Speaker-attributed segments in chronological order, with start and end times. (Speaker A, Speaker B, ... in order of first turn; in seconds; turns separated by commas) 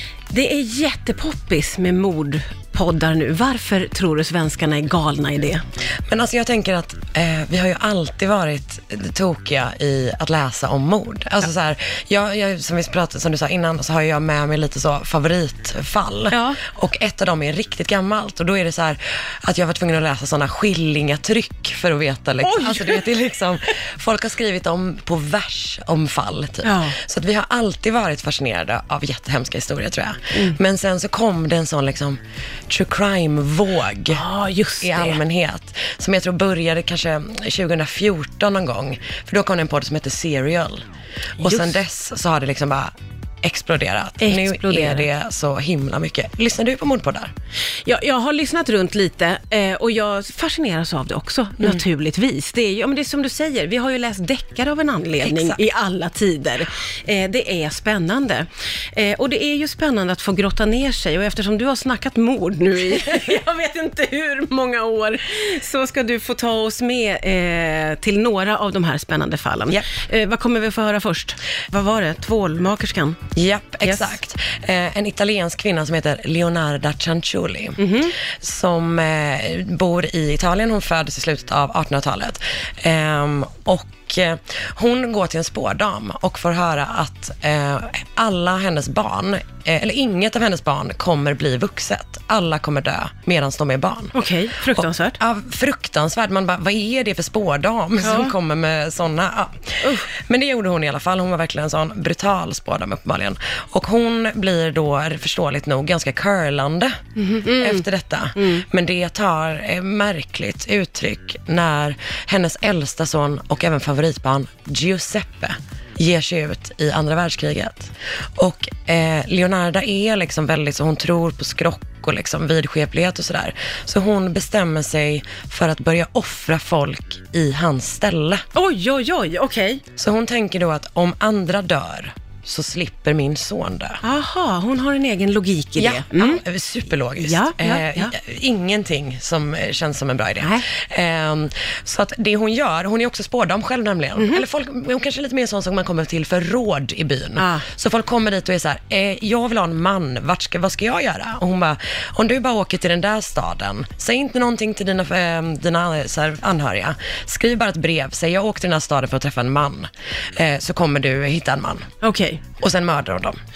Speaker A: 0.3-5.6, Speaker B: 6.1-34.2, Speaker A: 16.3-16.6, Speaker A: 22.4-23.1, Speaker A: 26.6-26.9, Speaker A: 34.1-35.2, Speaker B: 34.8-40.8, Speaker A: 41.4-41.8, Speaker B: 41.4-47.3, Speaker A: 44.2-45.1, Speaker A: 47.8-73.2, Speaker B: 55.2-55.6, Speaker B: 73.3-94.1, Speaker A: 77.8-78.2, Speaker A: 94.1-95.2, Speaker B: 94.7-128.4, Speaker A: 98.0-98.3, Speaker A: 99.8-100.1, Speaker A: 107.2-107.8, Speaker A: 108.4-108.6, Speaker A: 128.5-129.8, Speaker B: 130.0-134.0, Speaker A: 134.0-136.4, Speaker B: 135.8-161.9, Speaker A: 137.2-138.1, Speaker A: 144.2-144.4, Speaker A: 147.4-147.7, Speaker A: 162.0-162.4, Speaker B: 162.6-163.4